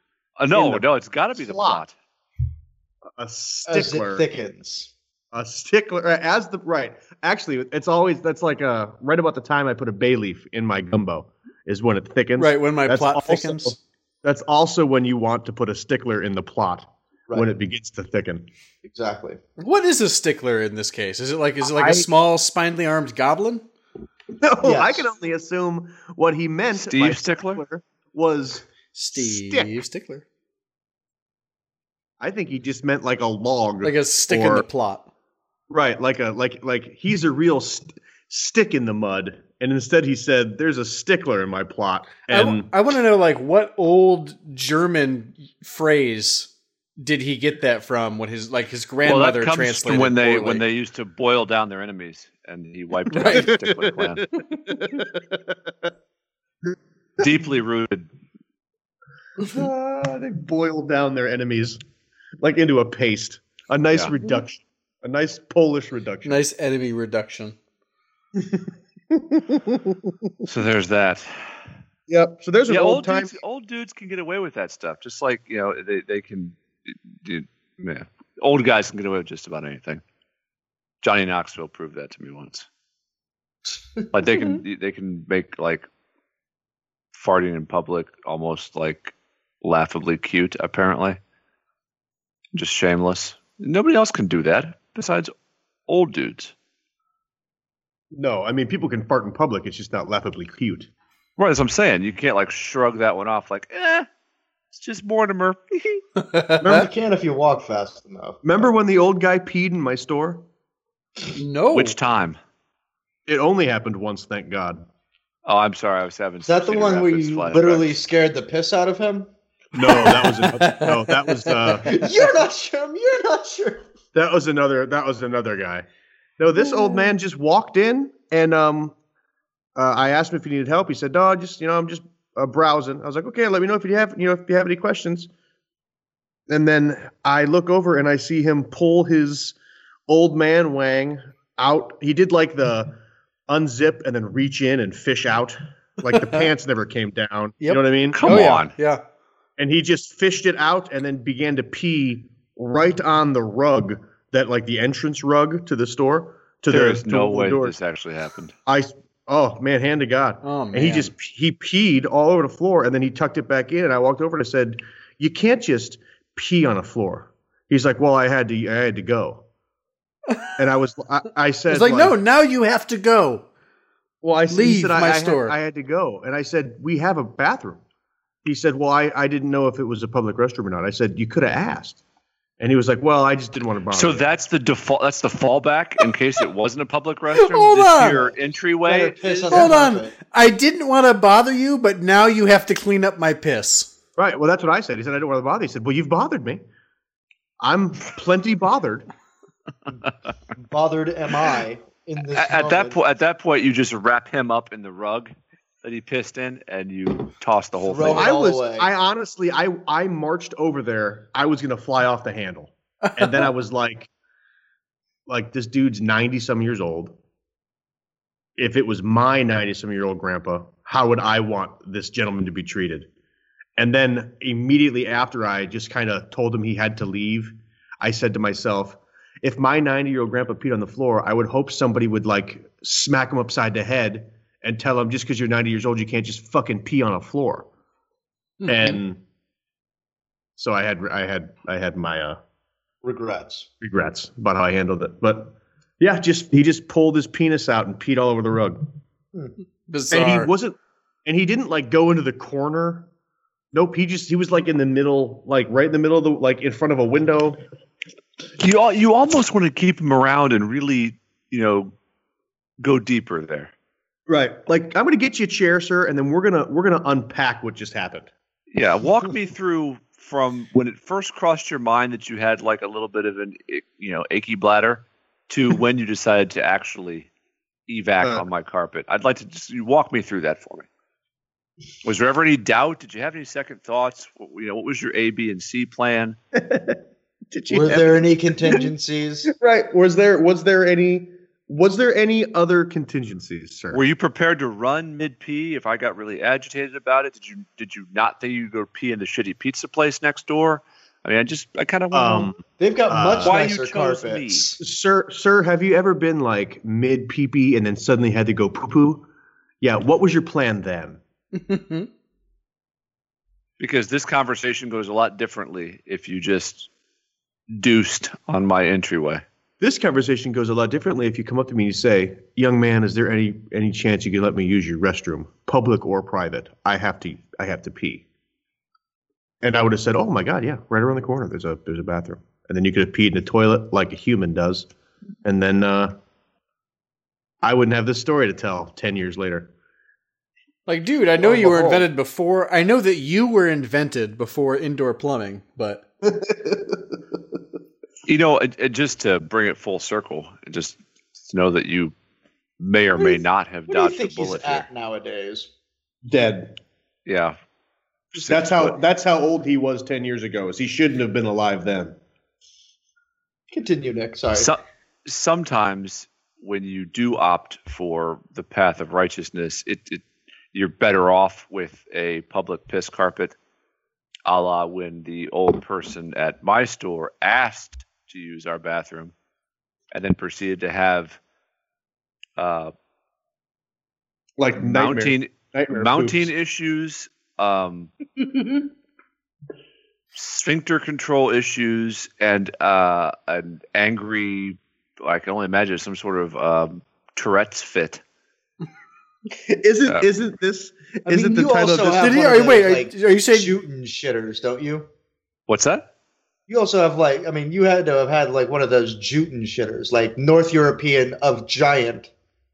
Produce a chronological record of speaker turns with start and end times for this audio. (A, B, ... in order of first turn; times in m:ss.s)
0:00.4-0:01.9 A
0:00.5-0:01.8 B
0:03.2-0:04.2 B
0:03.6-0:04.9 C
0:05.3-0:18.5 B
0:12.4-0:13.8 D
0:18.8-0:19.4 C
0:19.6-0:23.6 D
0:21.7-0:22.1 B
0:24.4-0:29.7 B
0:24.6-0:25.1 C
0:26.7-0:27.6 A
0:28.9-0:30.2 D
0:32.2-0:34.6 B
0:33.8-0:35.1 D
0:35.7-0:42.7 B
0:42.3-0:50.6 D
0:49.0-0:54.3 A
0:53.1-0:53.6 D
0:53.3-0:55.5 B
0:57.2-0:58.1 A
0:59.4-1:01.8 B
1:02.4-1:06.4 B
1:06.2-1:07.5 D
1:08.4-1:10.2 B
1:10.4-1:11.6 A
1:12.1-1:13.4 B
1:12.7-1:20.0 A
1:21.0-1:22.7 A
1:24.1-1:25.9 A
1:27.1-1:31.2 A
1:32.5-1:35.3 A
1:35.9-1:36.5 A
1:38.1-1:40.9 B
1:41.4-1:44.1 A
1:44.7-1:46.0 A
1:46.3-1:46.6 D
1:46.6-1:46.9 B
1:46.6-1:48.4 C
1:48.4-1:50.5 B
1:51.3-1:52.0 D
1:51.7-1:52.4 A
1:53.2-1:54.9 B
1:55.4-1:58.0 A
1:56.4-1:59.3 C
1:59.7-2:01.9 B
1:59.9-2:02.1 D
2:01.8-2:03.8 C
2:04.1-2:05.8 B
2:06.4-2:09.0 B
2:09.7-2:15.3 B
2:16.5-2:19.6 B
2:20.1-2:28.6 B
2:26.1-2:26.4 D
2:27.6-2:29.0 D
2:28.1-2:28.7 A
2:29.6-2:37.8 B
2:36.7-2:38.5 A
2:38.6-2:49.4 B
2:40.4-2:41.1 D
2:50.6-2:52.2 B
2:51.7-2:53.4 D
2:54.2-2:57.8 B
2:54.5-2:55.6 D
2:58.4-3:02.0 B
3:02.6-3:04.2 B
3:03.9-3:09.7 A
3:07.3-3:08.3 D
3:08.8-3:10.1 C
3:09.5-3:13.9 D
3:14.2-3:16.6 B
3:17.6-3:19.1 B
3:20.5-3:23.0 C
3:22.3-3:28.3 A
3:27.8-3:28.9 C
3:28.1-3:34.1 B
3:33.0-3:33.5 D
3:35.3-3:37.2 B
3:38.6-3:43.1 B
3:43.8-3:57.7 B
3:58.6-3:59.0 D
3:58.6-3:59.2 B
4:00.6-4:02.4 B
4:03.0-4:03.7 C
4:03.8-4:08.9 B
4:09.9-4:10.5 D
4:10.1-4:13.1 B
4:13.7-4:17.6 B
4:18.6-4:21.9 A
4:22.8-4:23.7 A
4:24.3-4:28.3 B
4:28.7-4:37.3 A
4:37.9-4:40.9 A
4:38.2-4:38.4 B
4:42.0-4:46.4 A
4:46.5-4:48.9 B
4:47.7-4:49.5 C
4:49.5-4:54.0 B
4:53.9-5:02.5 A
5:02.1-5:03.6 B
5:02.8-5:04.8 C
5:03.4-5:04.7 A
5:04.8-5:09.3 B
5:09.8-5:11.2 B
5:11.5-5:12.1 D
5:13.8-5:16.9 A
5:17.7-5:19.4 A
5:19.8-5:28.2 B
5:29.6-5:34.9 B
5:35.4-5:36.2 B
5:37.6-5:39.7 B
5:40.9-5:46.0 D
5:41.4-5:42.0 B
5:46.2-5:47.1 B
5:48.2-5:52.1 A
5:52.8-5:54.8 A
5:53.2-5:55.7 C
5:56.2-5:56.8 B
5:57.2-5:57.6 A
5:58.3-5:59.0 A
5:58.4-6:02.2 B
6:03.7-6:04.7 C
6:04.5-6:13.5 A
6:14.4-6:19.3 A
6:20.1-6:21.4 A
6:22.6-6:22.9 A
6:24.6-6:26.5 B
6:24.8-6:28.1 A
6:30.3-6:38.2 A
6:39.5-6:42.5 B
6:41.3-6:45.1 C
6:42.2-6:43.7 D
6:45.7-6:46.1 A
6:46.7-6:52.3 C